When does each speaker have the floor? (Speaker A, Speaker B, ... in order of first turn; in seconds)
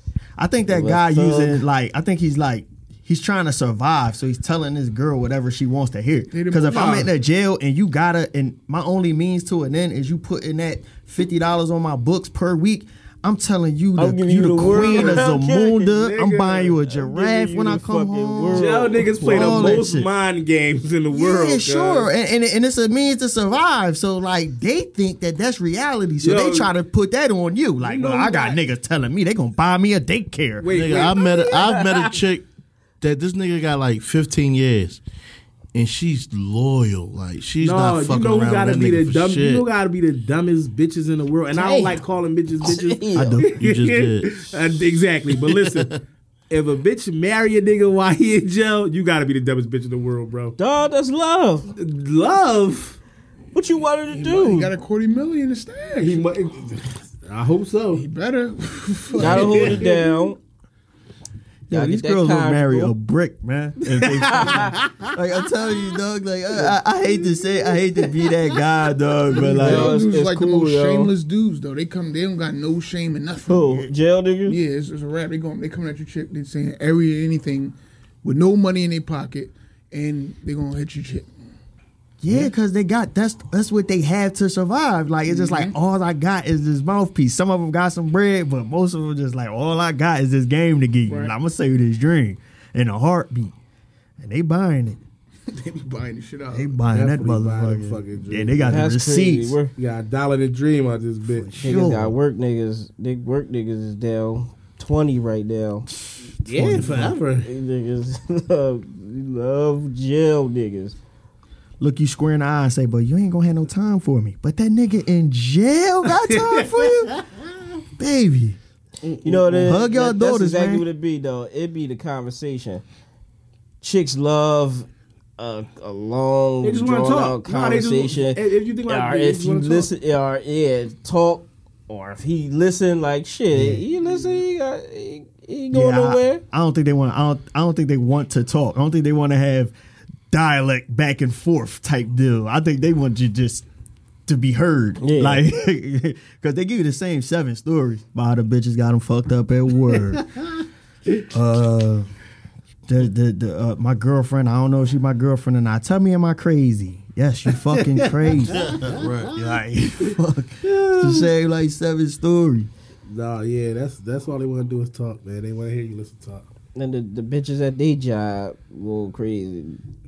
Speaker A: 0.4-20.1, 21.1-30.7, 43.1-43.6, 61.7-70.0, 82.2-93.5, 94.2-95.0, 96.5-99.6, 101.3-102.2, 106.6-107.1, 111.8-117.2, 118.0-118.6, 119.6-120.9, 133.5-133.8, 135.7-139.7, 140.3-143.7, 144.3-150.3, 151.3-152.1, 152.9-158.8, 159.3-162.7
Speaker B: 0.7-1.6, 14.0-15.9, 16.9-19.8, 31.2-32.1, 41.5-42.0, 42.6-43.5, 50.6-51.7, 53.5-54.7, 59.2-60.4, 61.7-62.9, 64.2-64.7, 69.4-71.1, 73.5-74.6, 98.7-99.7, 101.6-105.9, 106.6-106.8, 107.5-111.0, 119.2-122.8, 123.8-124.9, 125.4-136.4, 145.0-145.5, 166.8-169.8
Speaker C: 6.3-7.1, 54.1-56.3, 57.9-60.0, 69.3-73.9, 74.5-81.3, 85.3-85.7, 95.5-96.7
Speaker D: 6.7-7.1, 14.9-15.3, 15.9-16.8, 18.5-22.1, 26.2-26.7, 27.8-28.6, 30.6-31.2, 37.6-46.0, 46.5-50.6, 51.7-53.0, 56.0-58.0, 59.2-59.9, 64.0-64.9, 96.9-98.9, 99.8-101.6, 106.5-107.5, 116.2-117.3, 119.0-119.8, 126.6-129.9, 157.7-159.3, 160.6-161.3, 163.1-166.5
Speaker E: 30.7-32.5, 33.0-35.0, 35.7-39.7, 43.6-44.5, 45.5-46.0, 158.5-159.3